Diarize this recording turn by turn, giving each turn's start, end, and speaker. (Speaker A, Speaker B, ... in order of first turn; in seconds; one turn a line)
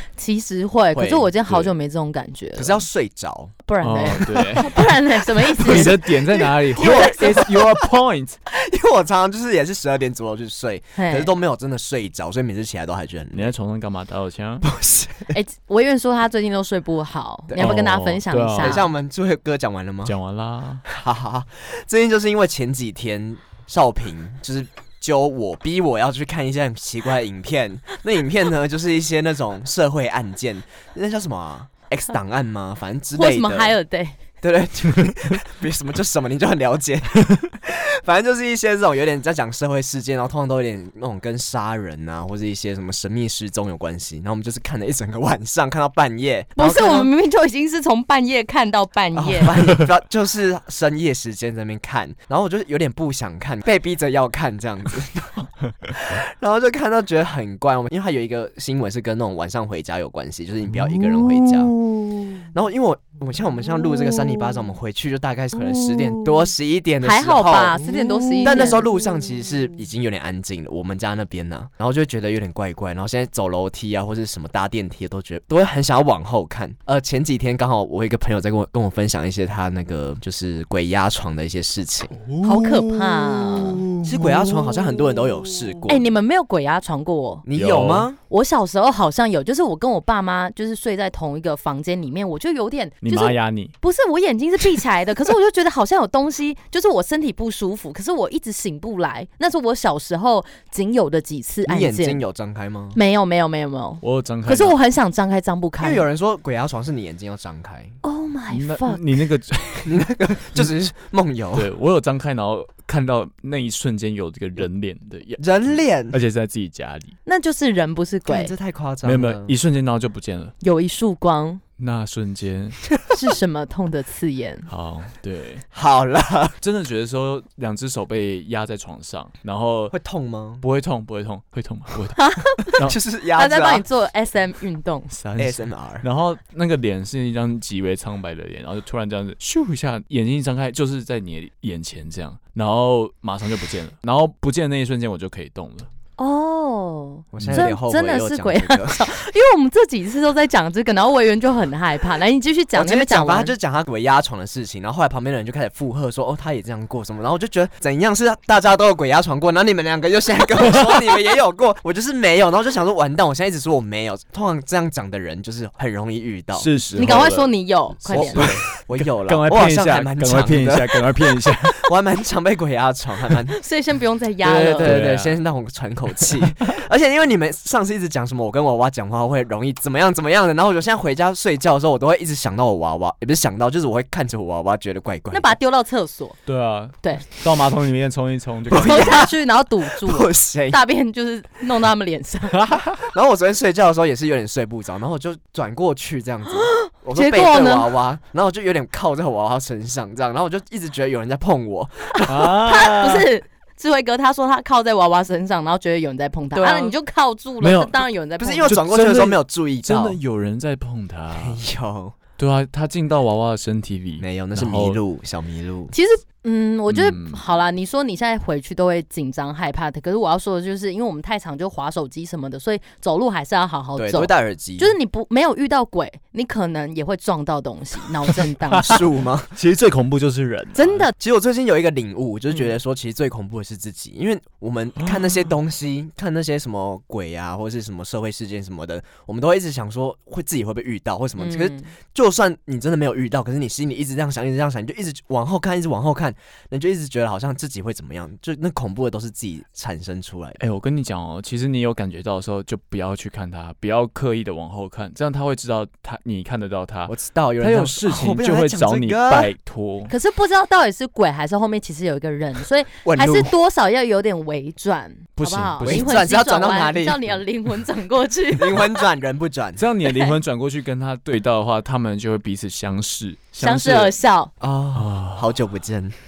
Speaker A: 0.2-2.8
Speaker B: 0.9-1.3
Speaker C: 1.4-1.7
Speaker B: 2.5-3.5
Speaker A: 3.7-6.0
Speaker C: 3.8-4.8
Speaker C: 5.5-8.3
Speaker B: 5.6-7.6
Speaker A: 6.8-7.5
Speaker B: 8.5-13.5
Speaker A: 11.0-11.3
Speaker C: 13.3-14.7
Speaker B: 14.6-15.4
Speaker A: 15.3-18.9
Speaker C: 17.5-18.8
Speaker B: 18.6-20.1
Speaker C: 20.1-20.8
Speaker B: 20.9-33.8
Speaker A: 33.1-34.2
Speaker B: 34.4-47.1
Speaker A: 46.6-49.6
Speaker B: 49.1-61.7
Speaker C: 60.8-62.4
Speaker B: 62.5-67.9
Speaker C: 64.1-64.4
Speaker A: 67.0-68.8
Speaker B: 68.4-82.2
Speaker C: 82.1-85.8
Speaker A: 82.4-83.8
Speaker B: 84.0-86.0
Speaker A: 85.9-87.4
Speaker B: 87.4-88.2
Speaker C: 87.5-88.1
Speaker A: 88.3-102.2
Speaker C: 93.0-93.7
Speaker B: 101.7-103.0
Speaker A: 102.9-106.0
Speaker C: 104.0-104.7
Speaker B: 105.8-108.0
Speaker A: 108.0-109.0
Speaker C: 108.5-110.0
Speaker B: 109.8-111.7
Speaker C: 111.5-117.2
Speaker B: 115.4-116.2
Speaker A: 117.2-118.5
Speaker B: 118.3-119.5
Speaker C: 119.0-120.5
Speaker A: 120.6-121.6
Speaker C: 121.8-122.8
Speaker A: 123.1-124.7
Speaker C: 124.7-125.6
Speaker B: 125.7-126.5
Speaker C: 126.6-129.9
Speaker B: 129.9-130.6
Speaker C: 130.6-132.9
Speaker A: 132.2-132.8
Speaker B: 132.8-133.8
Speaker A: 133.3-135.1
Speaker C: 135.1-145.9
Speaker B: 135.4-136.1
Speaker A: 146.2-153.5
Speaker B: 147.3-149.0
Speaker C: 147.4-147.7
Speaker B: 152.7-166.7
Speaker C: 166.5-167.5
Speaker A: 166.9-168.5
Speaker B: 168.0-173.5
Speaker C: 168.1-171.9
Speaker A: 173.5-175.0
Speaker C: 174.4-175.4
Speaker B: 174.8-185.6
Speaker A: 185.3-186.4
Speaker C: 186.4-189.3
Speaker B: 188.7-189.2
Speaker A: 188.7-192.6
Speaker B: 189.9-190.8
Speaker C: 192.8-193.0
Speaker B: 192.9-202.5
Speaker A: 196.6-197.9
Speaker C: 202.2-203.3
Speaker A: 202.4-208.8
Speaker C: 206.5-206.9
Speaker C: 207.6-208.1
Speaker B: 208.4-210.2
Speaker C: 208.6-211.6
Speaker B: 211.3-212.2
Speaker C: 212.4-215.0
Speaker B: 214.2-215.9
Speaker A: 215.9-229.0
Speaker C: 216.9-217.4
Speaker B: 223.9-224.9
Speaker C: 228.7-231.1
Speaker B: 228.8-229.5
Speaker A: 230.7-231.1
Speaker B: 231.1-250.6
Speaker A: 241.4-241.9
Speaker C: 250.6-260.1
Speaker B: 257.1-259.5
Speaker A: 260.1-268.9
Speaker B: 263.0-263.5
Speaker C: 265.4-266.2
Speaker B: 265.8-267.2
Speaker B: 268.5-269.9
Speaker C: 269.8-274.1
Speaker A: 270.1-270.4
Speaker A: 273.6-274.5
Speaker B: 274.6-276.1
Speaker C: 274.9-275.5